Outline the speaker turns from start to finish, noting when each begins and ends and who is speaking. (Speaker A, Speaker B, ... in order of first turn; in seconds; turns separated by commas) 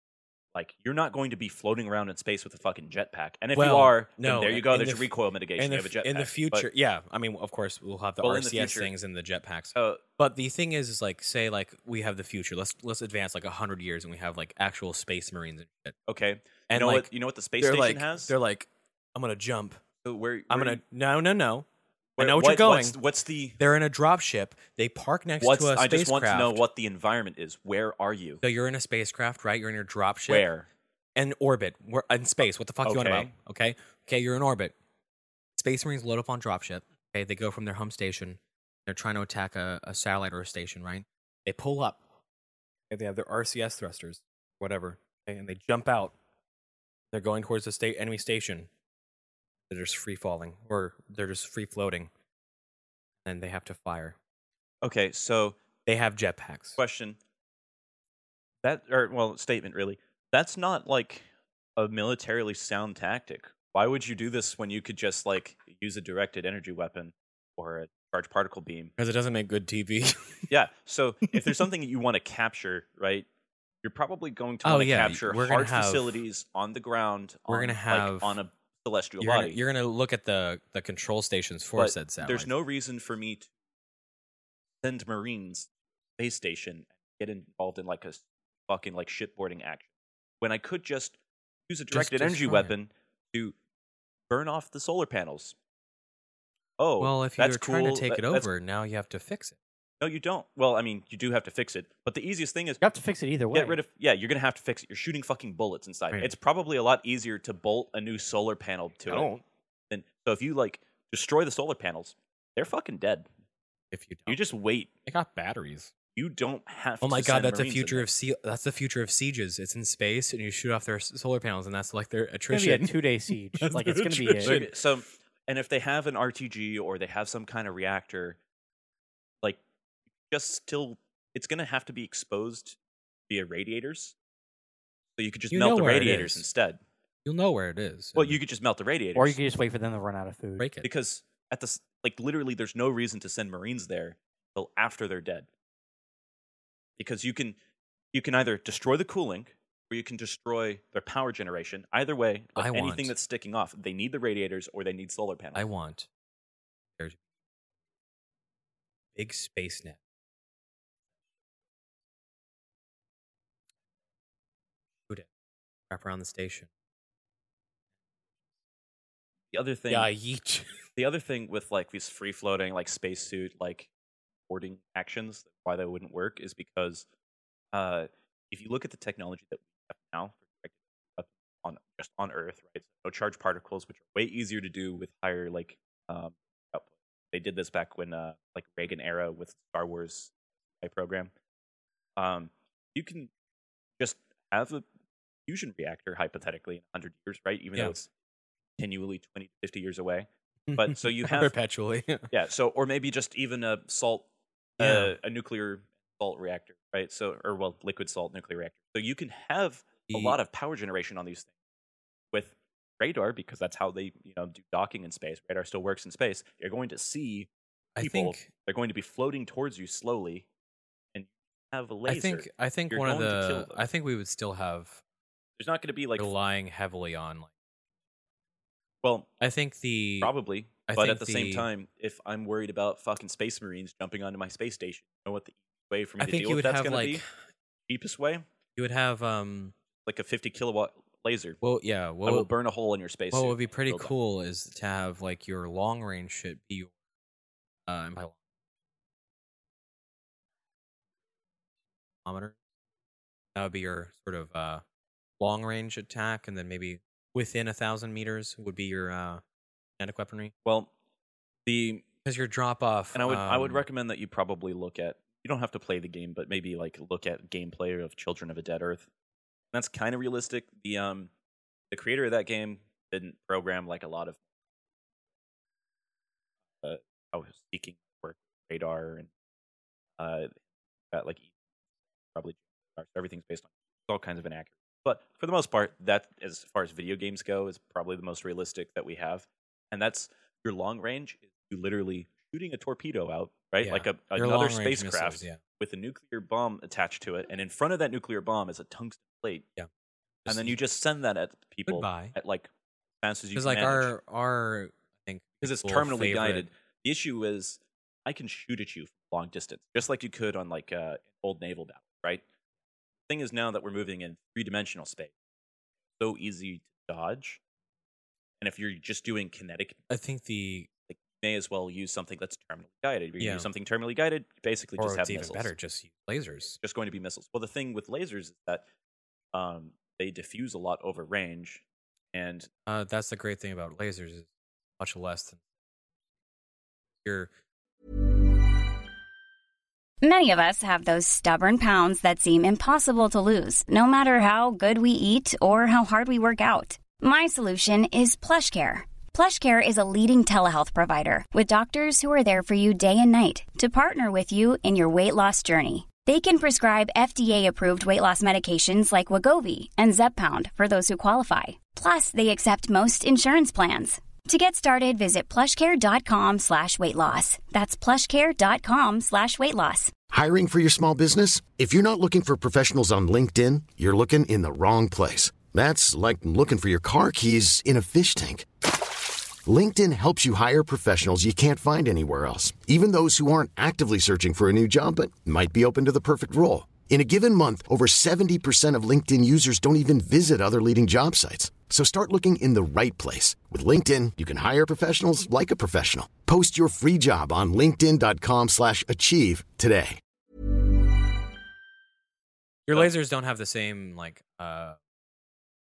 Speaker A: 0.5-6.7, Speaker B: 3.5-16.0, Speaker A: 8.2-8.9, Speaker A: 9.7-10.0, Speaker A: 16.1-18.3, Speaker B: 16.7-19.8, Speaker A: 20.0-20.8, Speaker B: 20.5-21.6, Speaker A: 22.2-23.6, Speaker B: 22.2-23.0, Speaker B: 23.6-26.6, Speaker A: 25.4-28.4, Speaker B: 28.4-30.5, Speaker A: 30.3-30.7, Speaker B: 31.2-34.7, Speaker A: 32.8-33.3, Speaker B: 35.6-42.0, Speaker B: 42.9-46.1, Speaker B: 47.1-48.7, Speaker B: 49.7-52.1, Speaker B: 53.2-54.1, Speaker A: 54.8-55.6, Speaker B: 55.9-56.8, Speaker A: 56.8-57.2, Speaker A: 58.6-68.9, Speaker B: 69.0-70.5, Speaker A: 70.5-73.3, Speaker A: 73.8-79.6, Speaker B: 74.6-76.2, Speaker B: 77.5-78.4, Speaker B: 79.2-82.5, Speaker A: 81.8-83.5, Speaker A: 84.8-89.9, Speaker A: 90.4-91.2, Speaker A: 91.7-93.5, Speaker B: 91.9-92.7, Speaker A: 94.3-95.5, Speaker A: 96.8-98.5, Speaker B: 97.0-99.5, Speaker A: 100.0-102.8, Speaker C: 102.8-103.8, Speaker A: 103.5-109.3, Speaker B: 109.1-109.4, Speaker A: 109.9-113.3, Speaker B: 113.9-114.4, Speaker A: 114.3-114.9, Speaker B: 115.1-115.9, Speaker A: 116.1-118.0, Speaker B: 117.0-123.0, Speaker C: 122.5-124.6, Speaker B: 123.6-124.7, Speaker A: 124.4-128.4, Speaker A: 130.3-132.8, Speaker A: 133.3-134.1, Speaker A: 135.2-136.8, Speaker B: 135.5-136.4, Speaker B: 137.2-138.4, Speaker A: 138.2-139.4, Speaker C: 139.1-140.6, Speaker B: 140.6-140.9, Speaker A: 140.8-145.5, Speaker A: 147.0-147.6, Speaker A: 148.1-155.7, Speaker B: 152.6-153.1, Speaker B: 155.5-156.1, Speaker B: 159.2-160.0, Speaker B: 165.9-166.7, Speaker A: 169.5-170.1, Speaker B: 169.9-170.8, Speaker A: 171.0-173.9, Speaker A: 174.5-177.1, Speaker A: 177.7-191.3, Speaker A: 192.2-193.3, Speaker A: 194.0-194.8, Speaker A: 195.4-198.1, Speaker A: 198.8-201.5, Speaker B: 200.7-202.3, Speaker A: 202.3-204.3, Speaker B: 204.8-205.1, Speaker A: 204.8-211.5, Speaker B: 210.1-210.4, Speaker A: 212.3-220.4, Speaker B: 217.9-218.5, Speaker A: 221.1-223.8, Speaker B: 222.1-225.0, Speaker A: 225.6-226.3, Speaker B: 226.2-227.5, Speaker A: 229.0-229.3, Speaker B: 229.4-230.3, Speaker A: 230.2-237.2, Speaker B: 230.9-231.7, Speaker B: 236.2-237.2, Speaker A: 237.9-238.4, Speaker B: 238.8-239.7, Speaker A: 240.0-241.6, Speaker B: 241.6-242.5, Speaker A: 242.2-244.1, Speaker B: 243.3-246.9, Speaker B: 247.9-248.3, Speaker B: 252.2-252.5, Speaker B: 253.6-254.8, Speaker B: 255.4-259.4, Speaker B: 260.0-260.5, Speaker A: 260.6-260.9, Speaker A: 261.6-262.1, Speaker B: 262.2-263.8, Speaker A: 263.1-269.1, Speaker A: 269.7-271.3, Speaker A: 271.9-274.4, Speaker A: 276.8-279.3, Speaker A: 280.2-280.6, Speaker A: 281.1-281.5, Speaker A: 282.3-299.7, Speaker B: 293.8-295.6, Speaker B: 300.4-300.8, Speaker A: 300.5-302.7, Speaker B: 301.9-302.3, Speaker A: 303.2-304.1, Speaker B: 303.5-306.6, Speaker A: 305.6-312.4, Speaker A: 313.3-315.3, Speaker A: 316.2-317.6, Speaker A: 318.6-320.0, Speaker B: 320.1-320.9, Speaker A: 321.1-325.7, Speaker B: 323.4-323.7, Speaker B: 325.0-326.8, Speaker A: 326.8-328.8, Speaker A: 329.5-332.7, Speaker B: 332.9-334.4, Speaker B: 335.0-335.6, Speaker B: 337.2-337.5, Speaker D: 340.2-370.1, Speaker E: 370.3-378.7, Speaker E: 379.6-400.2, Speaker B: 402.9-405.0